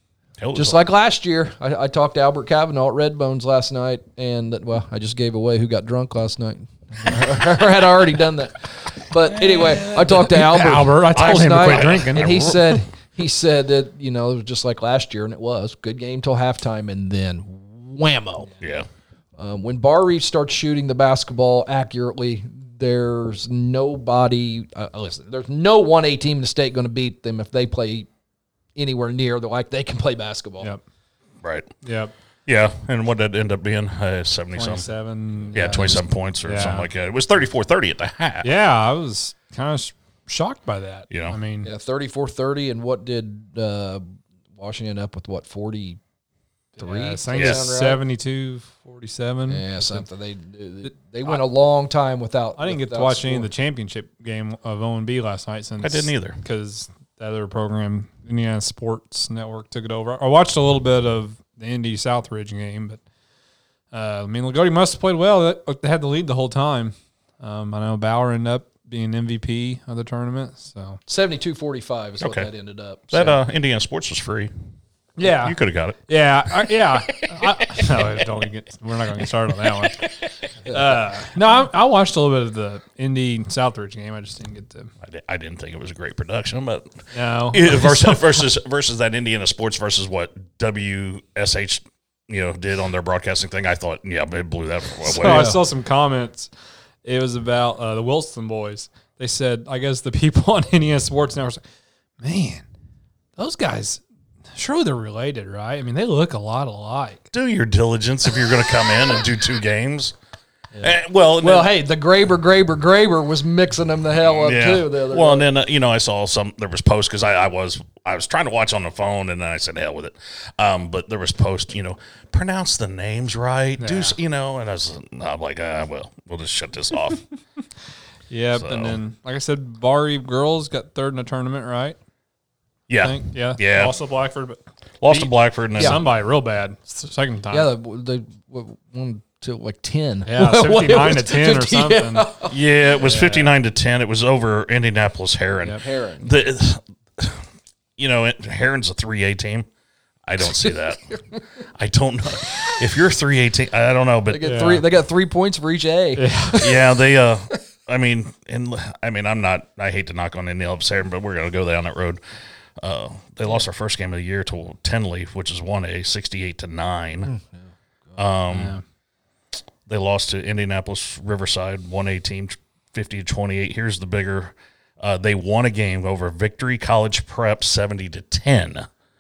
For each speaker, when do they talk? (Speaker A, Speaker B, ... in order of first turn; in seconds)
Speaker A: 0.4-0.8, 11.2-12.6, 18.6-18.9, 31.4-31.7, 32.5-34.9, 35.5-38.5, 41.1-41.4, 47.4-47.6, 55.8-56.4, 72.2-72.5, 73.1-74.5, 75.2-78.3, 79.3-80.3, 85.0-95.5, 107.3-110.2, 110.8-111.7, 114.2-127.2, 128.5-129.0, 132.9-133.9, 135.0-136.0, 142.5-147.4, 148.0-149.7, 150.3-151.0, 151.8-154.6, 156.6-162.2, 162.8-167.3, 168.2-168.8, 169.9-178.9
Speaker B: 0.6-18.5, 19.4-28.1, 28.8-30.7, 41.6-46.0, 46.8-48.0, 49.5-53.5, 71.1-73.4, 95.2-95.6, 110.8-115.5, 137.5-142.5, 145.8-146.3, 150.4-151.4, 154.3-156.7, 167.2-168.2
Speaker C: 10.1-12.8, 31.8-32.1, 34.5-36.9, 38.4-41.7, 46.8-50.0, 52.6-63.0, 63.9-71.0, 75.2-80.1, 80.7-84.9, 87.1-88.4, 95.0-96.5, 97.0-101.6, 102.2-102.7, 103.4-104.0, 104.5-107.3, 123.8-124.2, 128.3-132.0, 133.0-137.7, 140.3-142.3, 143.0-143.5, 154.4-154.8, 156.2-156.7, 168.5-168.8